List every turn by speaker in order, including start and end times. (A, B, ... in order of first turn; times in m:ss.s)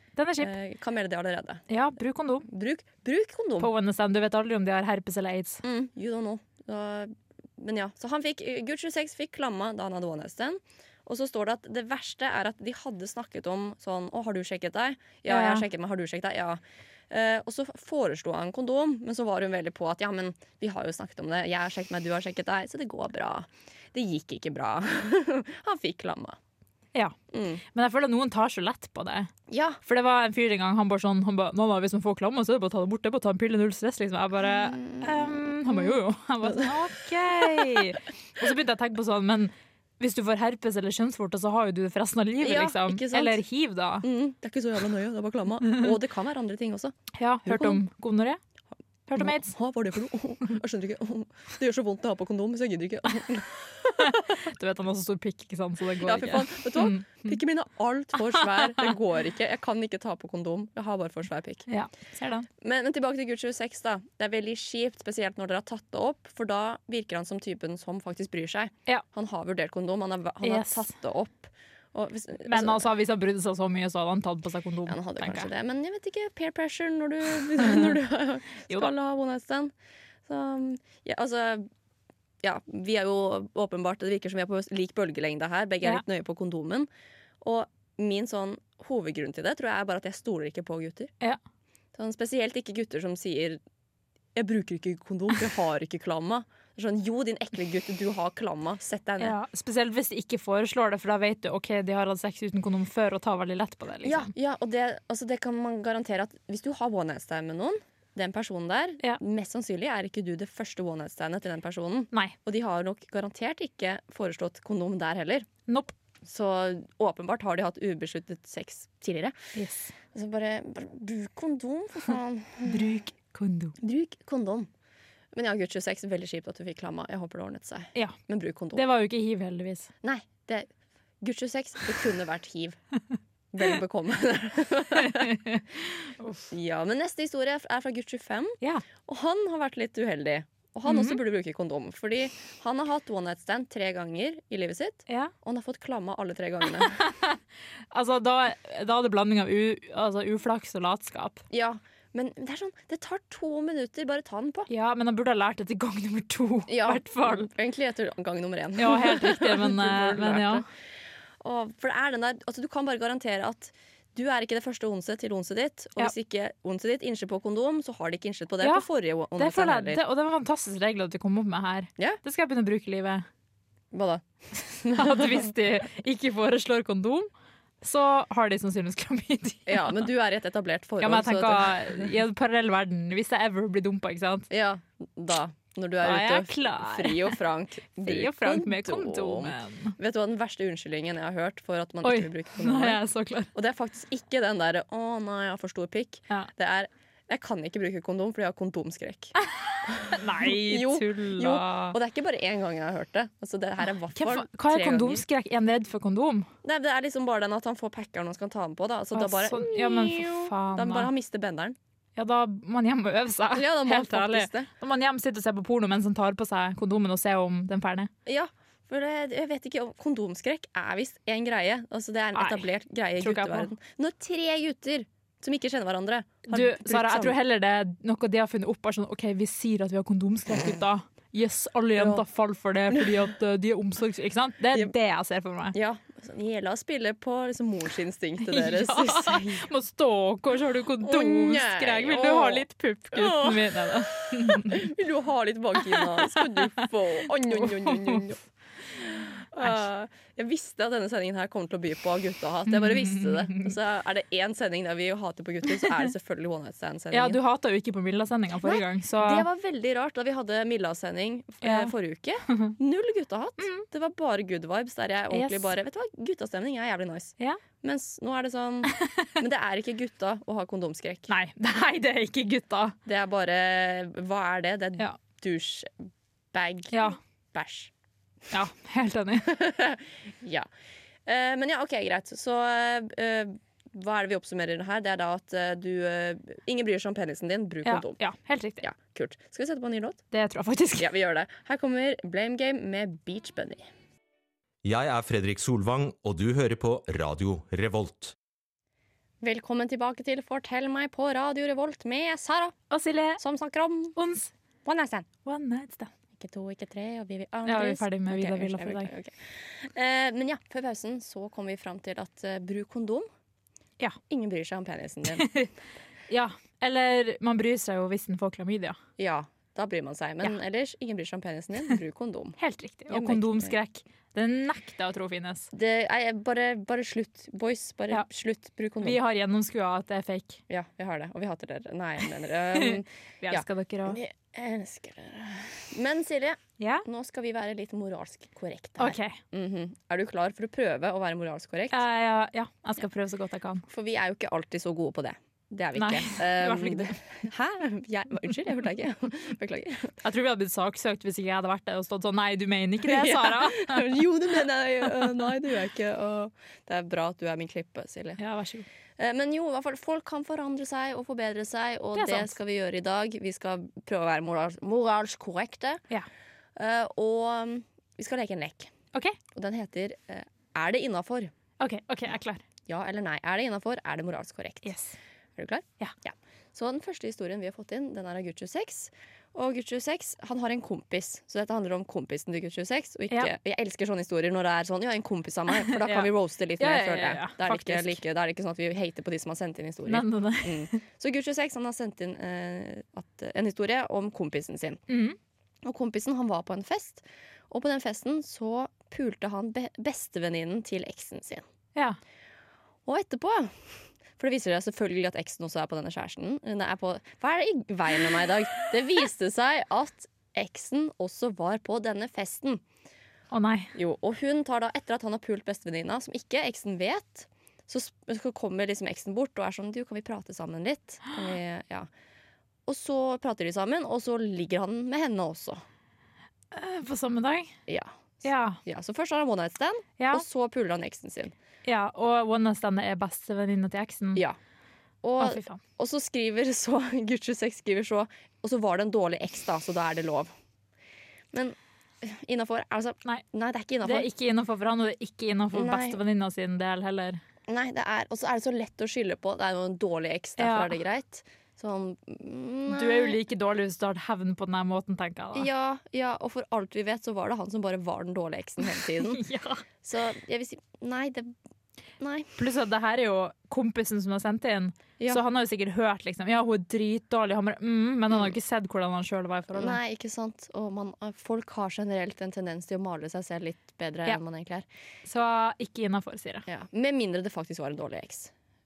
0:00.2-0:00.5 A
0:00.4-0:01.6 B
0:01.7-0:02.5 A
0:02.4-0:03.7 B
0:03.6-0:05.6 A
0:05.6-0:26.4 B
0:15.3-0:15.7 A
0:27.3-0:27.6 B
0:27.7-0:29.3 A
0:29.5-0:29.8 B
0:29.8-0:44.1 A
0:34.4-0:36.7 B
0:37.4-0:37.8 B
0:42.4-0:43.4 B
0:44.0-0:47.8 B
0:45.7-0:45.9 A
0:47.1-0:48.4 A
0:49.1-0:49.5 A
0:49.2-0:54.4 B
0:54.0-0:57.4 A
0:56.0-1:01.7 B
1:01.7-1:02.5 A
1:02.6-1:12.9 B
1:10.4-1:10.9 A
1:12.4-1:15.5 A
1:14.9-1:19.7 B
1:20.3-1:21.7 B
1:22.4-1:26.9 B
1:27.4-1:31.1 B
1:32.0-1:33.6 B
1:34.4-1:39.4 B
1:39.2-1:44.3 A
1:44.0-1:55.5 B
1:55.7-1:55.9 A
1:56.2-1:59.4 B
1:59.6-1:59.9 A
2:00.1-2:03.0 B
2:02.7-2:03.8 A
2:03.8-2:04.7 B
2:05.3-2:08.8 B
2:08.8-2:09.9 A
2:10.0-2:10.7 B
2:11.2-2:12.8 B
2:13.5-2:15.3 B
2:15.0-2:15.6 A
2:16.2-2:16.5 A
2:16.5-2:27.0 B
2:20.9-2:21.2 A
2:26.8-2:27.4 A
2:27.9-2:31.4 A
2:31.5-2:34.7 B
2:34.7-2:37.5 A
2:36.7-2:40.6 B
2:38.8-2:40.6 A
2:41.4-2:50.0 B
2:49.4-2:53.3 A
2:53.9-2:55.5 B
2:54.9-2:57.3 A
2:57.8-3:00.0 A
2:59.7-3:02.1 B
3:01.0-3:04.5 A
3:04.5-3:13.0 B
3:06.0-3:07.4 A
3:08.0-3:10.0 A
3:12.0-3:13.5 A
3:13.5-3:19.4 B
3:19.9-3:25.2 B
3:20.0-3:22.0 A
3:24.1-3:26.5 A
3:26.6-3:31.8 B
3:29.1-3:31.1 A
3:32.2-3:38.1 A
3:33.5-3:34.7 B
3:38.3-3:47.4 B
3:42.4-3:42.7 A
3:43.2-3:43.7 A
3:46.5-3:55.8 A
3:52.0-3:52.2 B
3:55.7-3:59.7 B
3:58.5-4:04.9 A
4:01.0-4:17.4 B
4:05.8-4:08.3 A
4:12.7-4:13.7 A
4:15.8-4:16.1 A
4:17.1-4:19.5 A
4:18.6-4:31.3 B
4:21.6-4:21.9 A
4:23.6-4:23.9 A
4:25.3-4:25.7 A
4:29.0-4:29.3 A
4:31.3-4:33.0 A
4:33.1-4:35.9 B
4:36.5-4:37.9 B
4:36.9-4:37.2 A
4:38.5-4:39.6 A
4:39.5-4:40.7 B
4:41.3-4:48.2 B
4:47.9-4:48.8 A
4:48.8-4:50.2 B
4:50.3-4:51.1 A
4:51.0-4:53.9 B
4:54.8-4:58.3 C
4:59.4-5:02.8 B
5:02.9-5:03.4 A
5:03.4-5:04.2 B
5:04.2-5:04.5 A
5:04.8-5:05.3 B
5:05.4-5:06.1 A
5:06.4-5:13.3 B
5:07.7-5:09.1 A
5:14.3-5:15.5 B
5:15.3-5:15.7 A
5:16.3-5:19.0 A
5:19.2-5:22.6 B
5:22.6-5:25.7 A
5:23.1-5:23.8 B
5:25.7-5:29.2 B
5:29.0-5:30.6 A
5:30.7-5:42.0 B
5:32.7-5:34.2 A
5:36.8-5:37.0 A
5:39.0-5:39.4 A
5:41.9-5:43.8 A
5:43.9-5:50.2 B
5:46.0-5:47.2 A
5:50.2-5:54.2 A
5:53.0-5:58.4 B
5:58.4-5:58.9 A
5:59.2-6:06.0 B
6:02.2-6:02.6 A
6:06.8-6:08.9 B
6:09.5-6:11.5 B
6:11.8-6:12.6 A
6:12.9-6:14.9 B
6:14.8-6:15.2 A
6:15.6-6:35.0 B
6:25.7-6:28.2 A
6:30.1-6:31.0 A
6:35.1-6:35.4 A
6:35.8-6:41.6 B
6:43.1-6:52.8 B
6:53.5-6:53.9 A
6:54.0-7:02.1 B
7:02.9-7:05.8 B
7:06.7-7:07.8 A
7:07.9-7:11.6 B
7:08.4-7:08.8 A
7:10.2-7:10.4 A
7:11.8-7:14.4 A
7:15.2-7:20.5 B
7:15.4-7:15.8 A
7:21.5-7:24.3 B
7:24.0-7:27.4 A
7:25.7-7:26.2 B
7:27.7-7:33.4 B
7:30.6-7:31.0 A
7:32.9-7:35.7 A
7:35.6-7:39.4 B
7:39.3-7:39.8 A
7:40.0-7:41.5 B
7:42.2-7:42.5 B
7:42.6-7:50.0 A
7:49.7-7:54.9 B
7:55.3-7:56.6 A
7:56.7-7:58.5 B